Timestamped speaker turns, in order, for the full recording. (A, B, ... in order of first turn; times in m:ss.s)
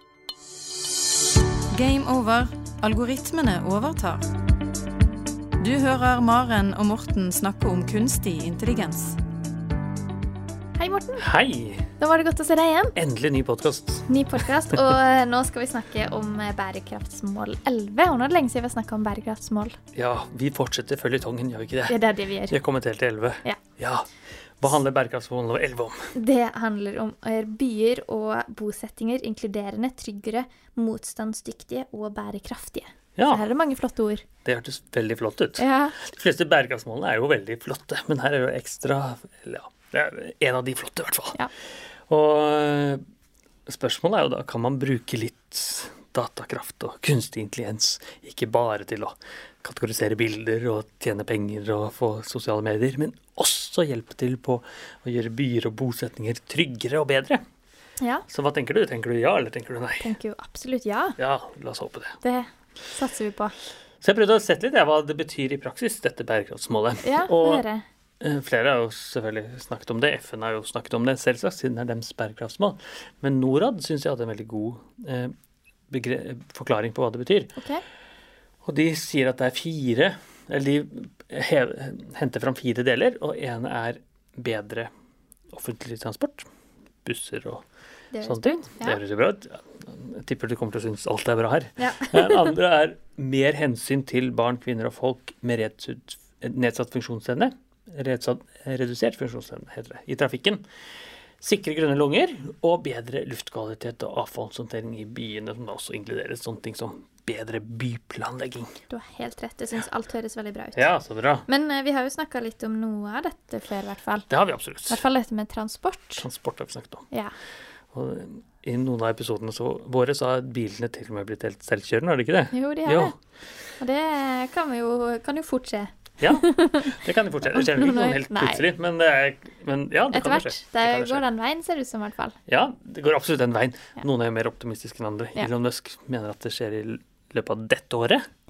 0:01.7-0:04.3 A
0:05.6-0:09.2 A
0:10.8-0:11.2 B
0:11.2-0:12.0 C
0:12.0-0:13.0 B
0:13.0-0:14.9 C
0:14.1-0:19.8 B
0:19.9-0:26.1 C
0:21.9-0:22.6 B
0:26.1-0:34.3 B
0:33.2-0:33.4 C
0:34.4-0:41.4 C
0:35.6-0:36.0 B
0:42.1-0:43.0 C
0:43.7-0:57.4 C
0:58.0-0:58.3 B
0:58.3-1:00.1 C
1:00.0-1:01.2 B
1:01.2-1:02.2 C
1:02.2-1:03.6 B
1:04.0-1:07.6 C
1:07.0-1:07.8 B
1:08.2-1:15.3 C
1:15.9-1:17.6 C
1:17.6-1:17.8 B
1:18.6-1:24.9 C
1:25.5-1:26.5 C
1:27.0-1:27.6 C
1:28.1-1:29.0 B
1:28.2-1:40.6 C
1:31.8-1:32.5 B
1:41.4-1:48.7 C
1:48.9-1:50.9 B
1:50.8-1:51.5 C
1:51.4-1:56.3 B
1:54.3-1:55.0 C
1:56.2-1:57.1 C
1:57.9-2:03.1 C
2:02.5-2:03.2 B
2:03.7-2:08.6 B
2:06.2-2:11.2 C
2:10.1-2:12.4 B
2:12.5-2:18.2 C